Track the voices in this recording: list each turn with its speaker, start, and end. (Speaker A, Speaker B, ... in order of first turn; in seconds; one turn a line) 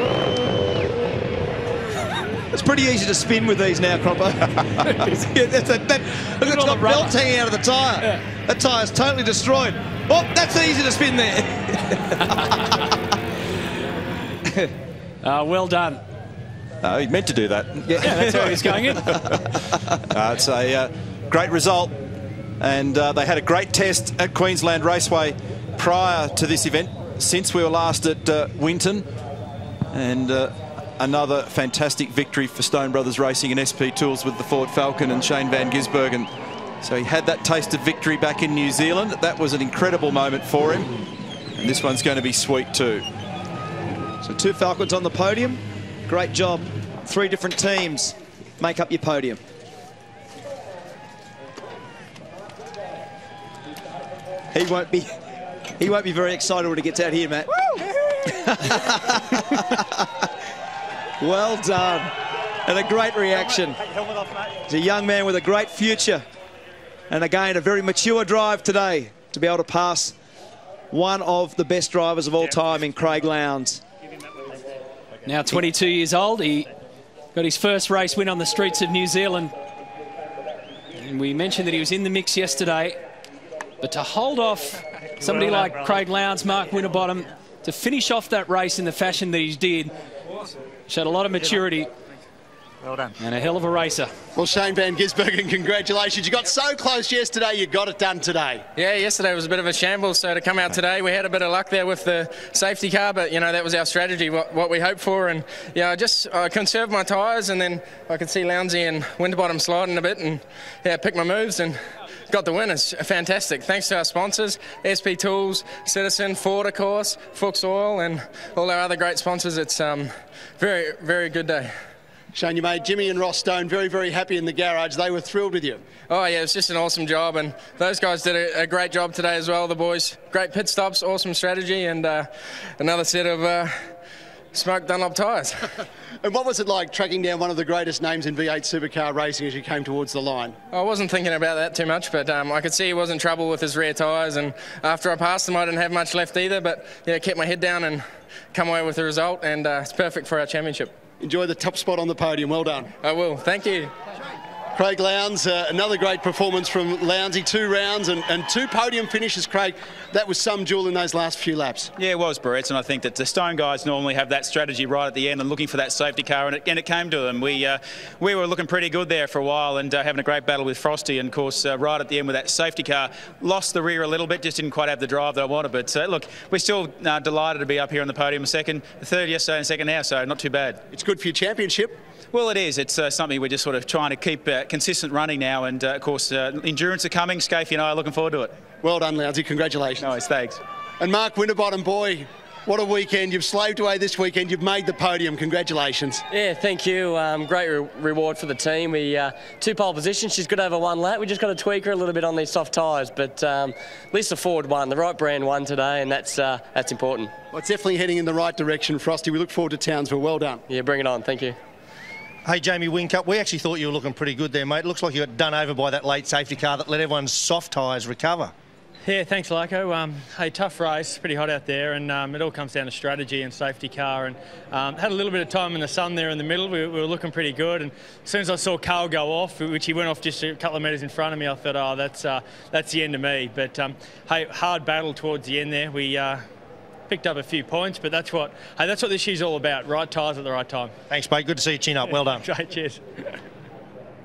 Speaker A: 2.5-12.9
Speaker B: 4.8-5.3
Speaker B: 6.4-7.1
Speaker B: 12.2-12.7
Speaker B: 15.2-16.0
Speaker C: 16.8-19.3
Speaker A: 17.9-19.3
Speaker B: 18.0-19.2
Speaker C: 20.1-22.0
Speaker C: 22.6-29.1
Speaker C: 29.9-36.3
Speaker C: 36.8-40.9
Speaker C: 41.6-43.0
Speaker A: 44.2-49.4
Speaker A: 54.5-55.2
Speaker A: 55.8-60.3
Speaker A: 61.2-62.1
Speaker A: 62.6-63.8
Speaker A: 64.7-66.3
Speaker A: 67.1-70.2
Speaker A: 70.9-73.8
Speaker B: 75.3-76.7
Speaker B: 77.3-79.5
Speaker B: 81.0-83.0
Speaker B: 83.8-89.9
Speaker B: 90.9-91.9
Speaker B: 93.2-94.1
Speaker D: 94.4-98.6
Speaker E: 98.8-111.8
Speaker E: 112.3-121.7
Speaker D: 122.3-125.8
Speaker E: 126.1-133.9
Speaker E: 134.5-135.7
Speaker D: 136.2-140.6
Speaker E: 140.7-150.9
Speaker D: 151.2-152.9
Speaker E: 153.0-153.9
Speaker D: 154.8-161.9
Speaker F: 162.0-180.8
Speaker D: 180.9-182.0
Speaker F: 182.3-188.6
Speaker D: 188.8-190.1
Speaker F: 190.0-190.6
Speaker D: 191.0-196.2
Speaker G: 196.3-207.3
Speaker D: 207.5-210.6
Speaker G: 210.7-211.6
Speaker H: 212.4-218.5
Speaker I: 219.0-236.4
Speaker I: 237.1-240.9
Speaker H: 241.1-242.5
Speaker I: 242.1-243.3